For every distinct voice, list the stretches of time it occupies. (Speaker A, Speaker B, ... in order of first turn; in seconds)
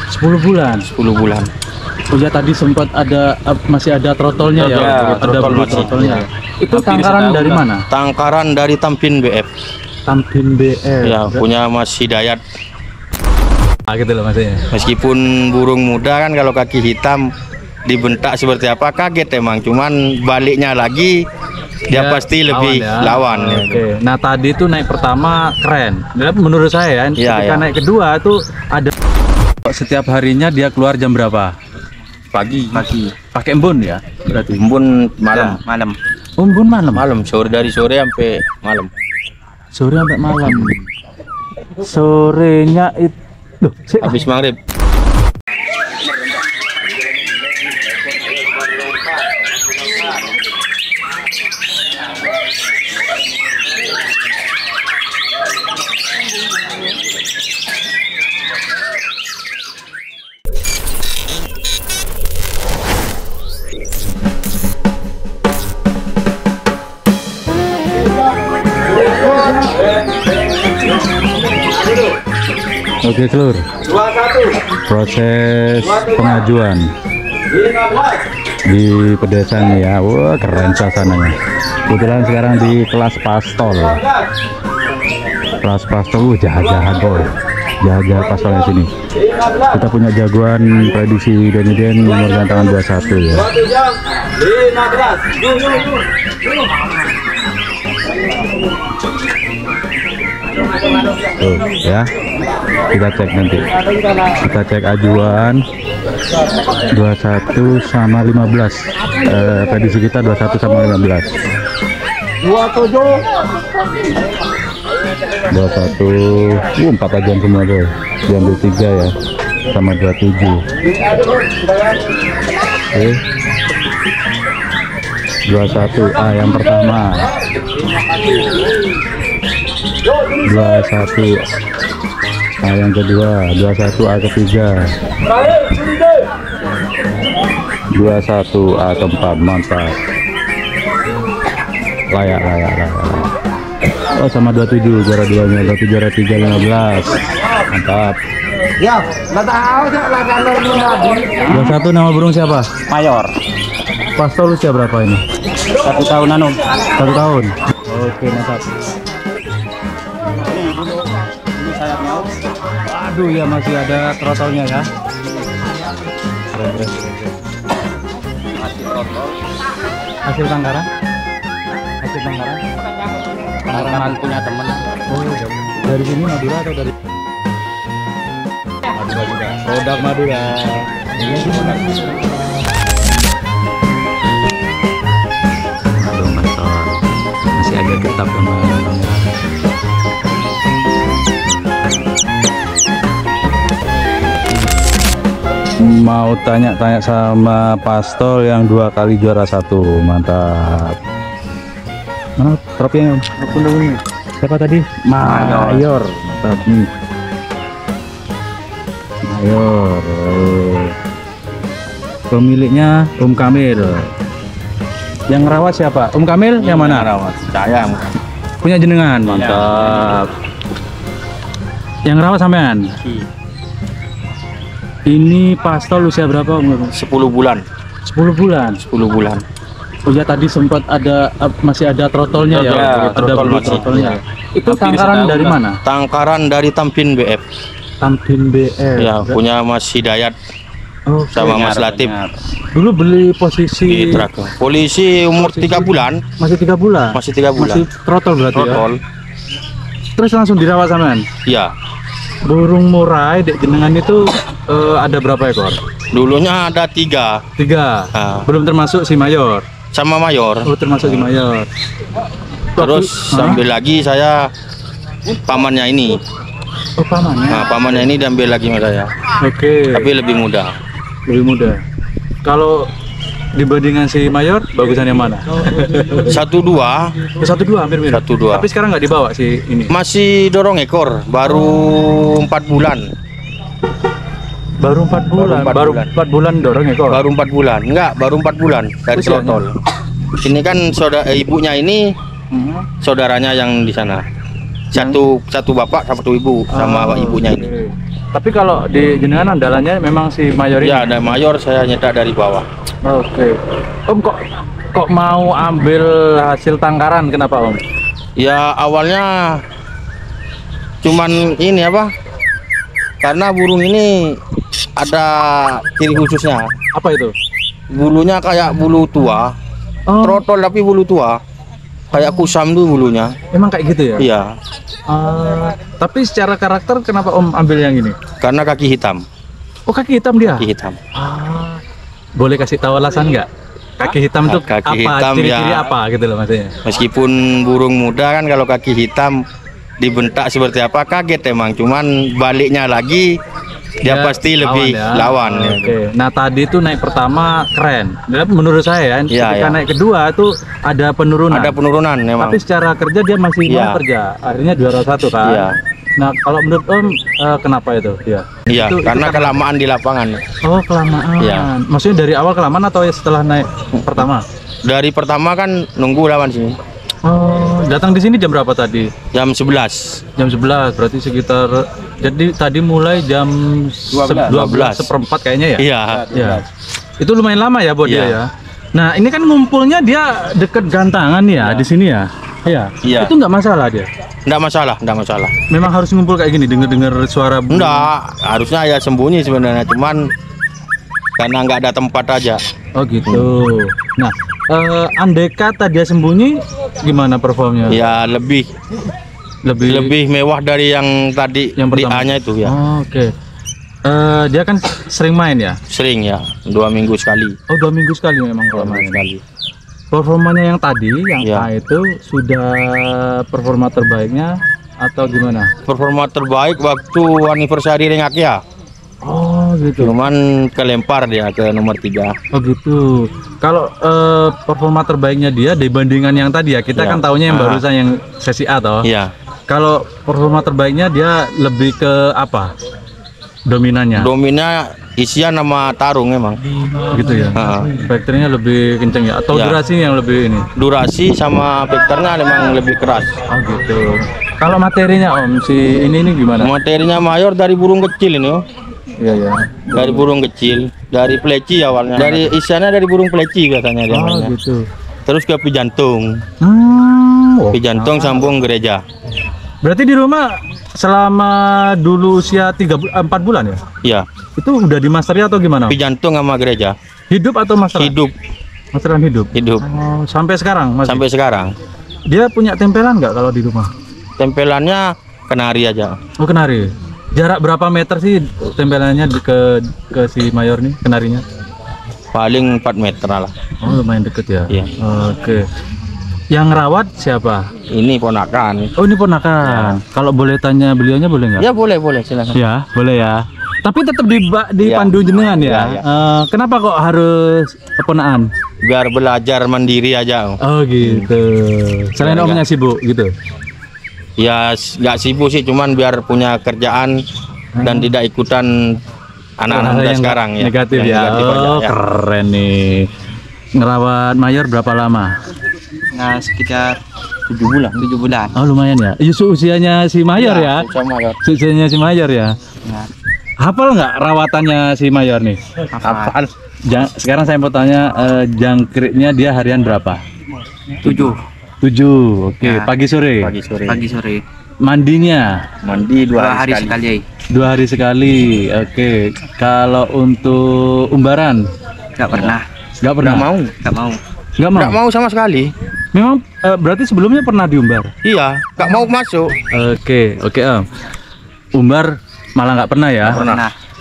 Speaker A: 0.1-0.9, 2.1-7.8, 10.1-11.4, 13.9-14.7, 21.9-28.9, 29.6-31.5, 33.3-34.6, 35.3-35.6, 36.4-37.0, 39.8-40.8, 41.8-44.2, 73.0-73.7, 74.8-76.8, 78.7-81.3, 81.9-84.0, 85.6-88.9, 89.6-93.5, 101.4-102.1, 102.9-103.6, 104.4-105.6, 106.9-111.3, 112.5-113.2, 115.5-119.1, 119.7-120.6, 122.9-123.2, 125.5-127.3, 130.4-131.4, 132.6-134.9, 137.9-139.9, 142.1-143.3, 144.1-148.2, 151.4-152.7, 154.2-155.2, 156.9-158.6, 162.9-164.9, 166.5-167.1, 170.3-170.9, 172.0-172.6, 173.7-174.2, 175.1-176.9, 179.0-182.0, 186.0-187.0, 187.6-189.3, 195.8-200.9, 202.4-206.9, 209.3-210.9, 212.3-214.1, 215.3-217.1, 218.6-220.3, 222.1-222.9, 225.1-226.9, 228.1-228.8, 230.1-235.8, 238.0-239.3, 241.1-241.6, 242.7-244.3, 245.4-248.8, 250.2-251.2, 252.5-255.8, 257.6-259.6, 260.6-261.7, 262.8-263.6, 267.0-268.0, 269.4-270.1, 271.3-271.8, 272.4-272.9, 273.6-276.4, 277.4-279.9, 281.5-281.8, 284.8-287.2, 289.1-289.6, 292.5-292.9, 296.7-301.3, 303.0-303.5, 304.1-304.4, 304.9-307.8, 316.9-317.3, 320.1-320.4, 323.5-324.3, 325.1-328.1, 329.9-331.8, 332.4-333.5, 334.0-336.7, 344.0-351.7, 352.4-355.7, 356.2-359.6, 360.6-364.4, 367.2-369.1, 370.4-376.6, 377.2-384.1, 385.7-388.1, 392.9-398.0, 399.6-400.1, 401.8-403.3, 404.1-405.8, 407.7-409.2, 410.1-415.7, 419.2-420.1, 422.5-429.1, 429.7-432.7, 433.7-434.3, 437.1-440.7, 443.5-444.1, 444.6-446.7, 449.2-450.2, 452.1-452.5, 454.1-454.8, 456.6-458.6, 459.8-463.8, 464.6-466.0, 467.3-468.2, 468.9-471.2, 472.3-473.9, 476.4-481.4, 483.8-485.6, 486.5-487.7, 489.0-491.6, 492.5-498.5, 500.6-503.3, 507.8-508.1, 509.7-513.1, 513.8-515.3, 518.5-520.8, 521.4-522.5, 523.6-525.6, 526.9-530.2, 531.8-533.5, 534.8-535.5, 537.5-541.6, 543.0-543.5, 544.6-545.0, 546.1-548.1, 549.7-550.9, 551.8-553.5
Speaker B: 0.8-1.5, 4.6-6.2, 7.9-9.5, 11.0-12.4, 14.7-17.2, 17.9-21.1, 21.9-23.8, 27.2-27.6, 32.3-32.9, 34.5-35.6, 36.9-38.9, 44.0-44.5, 73.9-74.5, 77.6-78.1, 216.6-218.0, 219.4-219.7, 226.9-227.6, 228.8-229.4, 232.5-234.1, 235.8-237.4, 239.0-240.3, 241.3-242.2, 243.9-246.2, 247.1-247.9, 248.5-249.0, 251.4-251.7, 256.1-257.4, 258.1-258.4, 259.9-261.3, 262.8-264.4, 265.4-266.2, 267.5-269.1, 269.9-270.7, 276.2-277.0, 278.1-278.6, 279.9-283.1, 285.3-286.1, 287.1-289.7, 290.4-292.0, 293.0-294.2, 294.9-297.6, 300.8-302.6, 308.4-309.6, 311.0-312.1, 313.2-314.4, 315.0-316.6, 317.9-319.5, 320.2-321.3, 322.1-323.3, 324.2-324.6, 328.4-329.2, 330.4-331.0, 334.4-335.8, 336.8-339.4, 340.0-343.4, 344.0-346.0, 349.3-349.8, 351.5-352.6, 353.7-354.0, 355.4-355.8, 358.7-360.4, 361.4-361.7, 363.9-364.3, 364.8-366.8, 369.3-370.2, 374.2-375.1, 375.8-376.3, 378.0-378.4, 383.0-383.3, 384.4-385.5, 387.7-390.2, 391.4-392.6, 397.9-398.7, 399.8-402.7, 405.9-407.5, 408.7-409.4, 411.4-411.7, 415.9-418.6, 420.0-422.3, 426.9-427.8, 429.0-429.3, 434.1-436.6, 437.5-437.9, 439.5-439.8, 440.8-443.3, 446.6-448.6, 449.9-454.5, 455.2-456.4, 457.7-459.0, 465.9-466.9, 467.9-468.3, 469.5-469.8, 471.0-471.7, 474.4-476.1, 482.3-483.5, 487.9-488.9, 489.6-489.9, 491.6-492.6, 494.8-496.0, 498.8-501.3, 502.2-502.6, 504.4-507.2, 507.8-508.9, 509.6-511.9, 517.5-518.0, 520.4-521.4, 526.0-526.5, 533.4-534.0, 535.8-537.0, 543.2-543.7, 544.7-545.7, 548.2-549.5, 553.2-553.6
Speaker C: 4.6-7.6, 32.7-33.1, 35.6-36.0, 148.9-151.5, 152.9-153.3, 155.8-156.6, 160.4-160.7, 161.6-162.3, 168.6-169.3, 173.7-174.8, 205.2-206.0, 219.3-220.0, 232.5-235.6, 241.5-242.4, 374.2-374.4, 376.1-376.6, 516.1-517.0, 518.0-518.5, 522.8-523.1, 525.9-526.3, 531.0-531.4, 532.6-532.9, 533.9-534.4, 536.4-537.2, 542.2-542.7, 543.8-544.2, 553.3-553.7